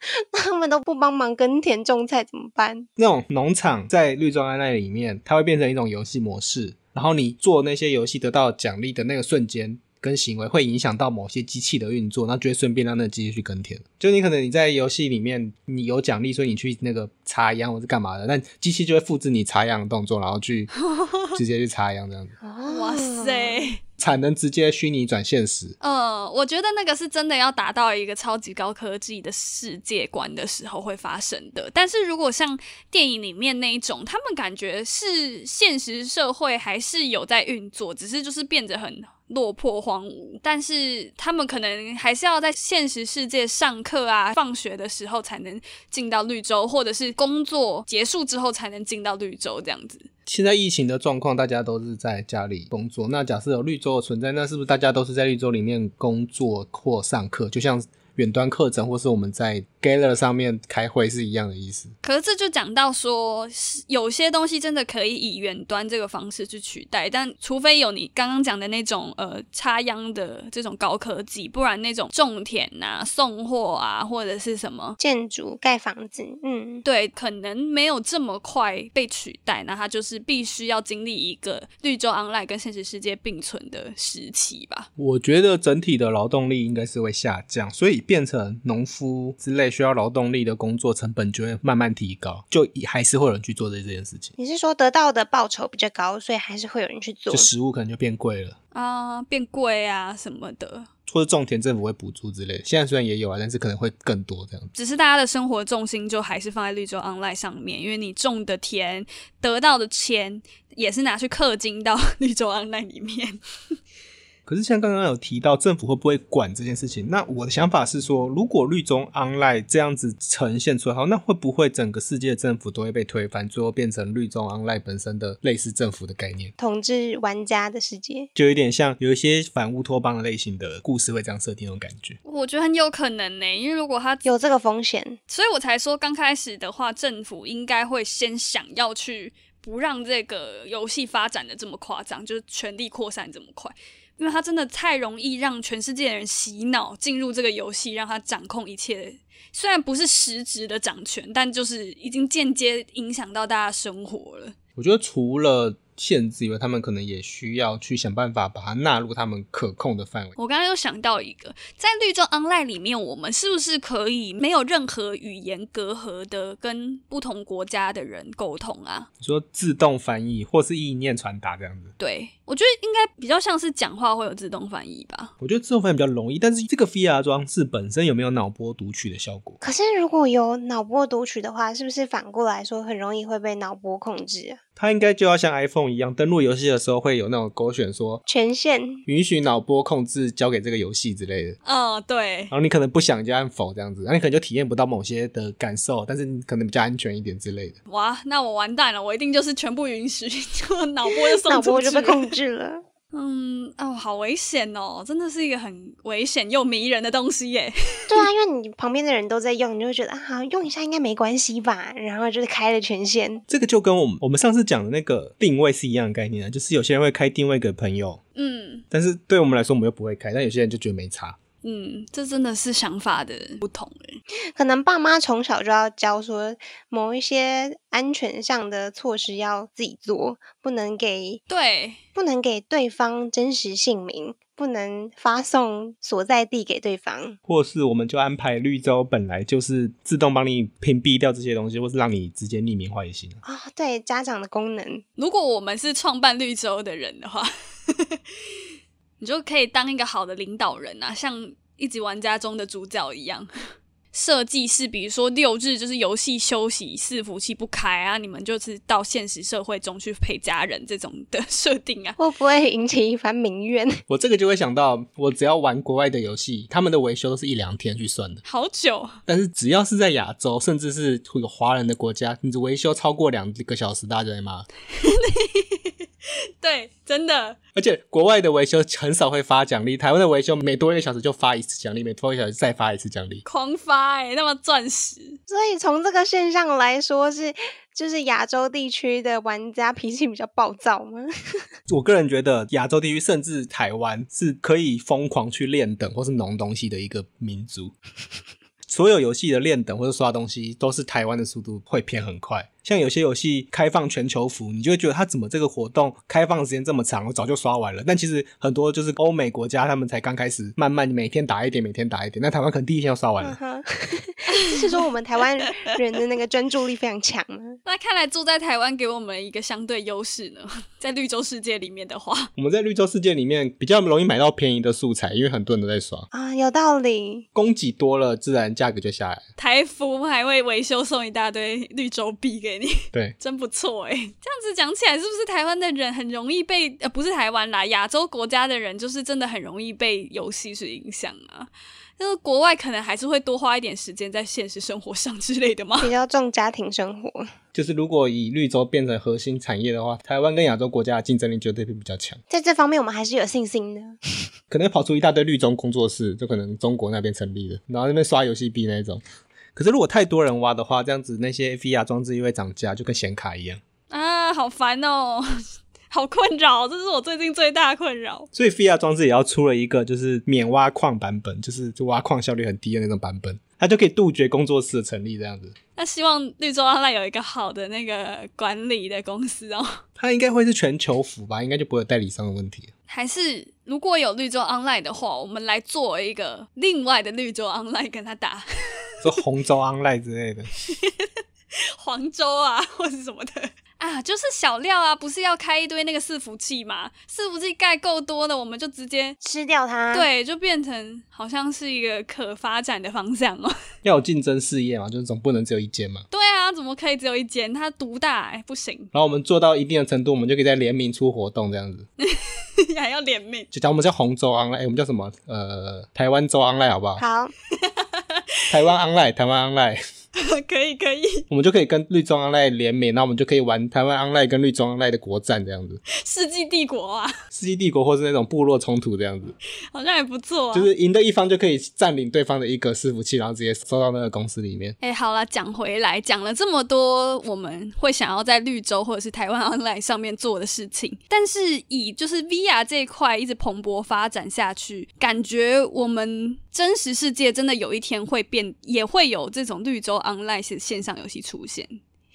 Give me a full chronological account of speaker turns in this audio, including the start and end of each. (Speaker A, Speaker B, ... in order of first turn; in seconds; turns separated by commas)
Speaker A: 0.2-2.9, Speaker B: 3.0-20.7, Speaker C: 20.8-21.4, Speaker B: 21.3-22.4, Speaker A: 22.4-23.6, Speaker C: 22.6-23.8, Speaker B: 24.0-25.7, Speaker C: 25.8-50.1, Speaker B: 50.2-61.9, Speaker C: 62.0-75.0, Speaker A: 75.0-76.8, Speaker C: 76.8-84.9, Speaker B: 85.0-94.3, Speaker A: 94.4-97.5, Speaker B: 97.3-98.5, Speaker C: 98.7-100.9, Speaker B: 101.1-104.7, Speaker C: 104.7-113.4, Speaker B: 114.5-126.5, Speaker A: 126.6-128.3, Speaker B: 128.3-132.2, Speaker C: 132.2-134.3, Speaker A: 134.2-135.2, Speaker C: 135.3-154.5, Speaker B: 154.8-160.3, Speaker C: 160.4-169.1, Speaker B: 169.2-171.9, Speaker C: 172.0-175.3, Speaker B: 175.4-179.6, Speaker A: 179.6-184.6, Speaker B: 184.8-188.2, Speaker A: 188.2-189.0, Speaker B: 189.1-191.6, Speaker C: 191.6-192.5, Speaker B: 192.5-197.8, Speaker C: 197.9-202.3, Speaker A: 201.1-202.8, Speaker C: 203.1-208.2, Speaker A: 208.1-213.4, Speaker B: 213.5-218.2, Speaker C: 218.3-218.8, Speaker B: 218.9-221.4, Speaker C: 221.6-224.2, Speaker A: 224.5-231.4, Speaker C: 231.5-232.0, Speaker A: 232.1-237.4, Speaker B: 237.5-243.4, Speaker A: 243.4-245.0, Speaker C: 245.2-248.2, Speaker C: 249.2-253.5, Speaker C: 254.1-262.2, Speaker A: 262.2-264.0, Speaker B: 264.1-268.4, Speaker C: 268.4-269.2, Speaker B: 269.3-274.7, Speaker C: 275.0-276.0, Speaker C: 276.6-277.6, Speaker B: 277.7-283.4, Speaker C: 283.4-285.4, Speaker A: 285.5-291.6, Speaker B: 291.9-297.9, Speaker B: 298.9-313.6, Speaker A: 313.4-317.8, Speaker C: 317.9-322.5, Speaker B: 322.6-326.3, Speaker A: 326.3-327.4, Speaker B: 327.5-329.4, Speaker C: 329.6-346.1, Speaker A: 346.0-347.5, Speaker B: 347.7-352.4, Speaker A: 352.5-354.2, Speaker B: 354.7-359.2, Speaker B: 359.8-363.8, Speaker C: 364.1-368.5, Speaker B: 368.5-375.7, Speaker C: 376.0-380.0, Speaker B: 380.2-382.9, Speaker C: 383.1-388.7, Speaker B: 389.2-390.7, Speaker C: 390.7-391.3, Speaker C: 392.0-399.4, Speaker A: 399.4-400.3, Speaker C: 400.1-403.7, Speaker B: 404.0-406.2, Speaker C: 406.3-409.1, Speaker B: 409.1-412.1, Speaker C: 412.2-413.7, Speaker B: 413.7-417.2, Speaker A: 417.2-417.5, Speaker C: 417.8-418.4, Speaker B: 418.7-420.0, Speaker C: 420.4-421.4, Speaker B: 421.5-426.0, Speaker C: 426.1-427.3, Speaker B: 427.5-429.6, Speaker C: 429.9-430.9, Speaker B: 430.7-434.9, Speaker C: 435.0-452.0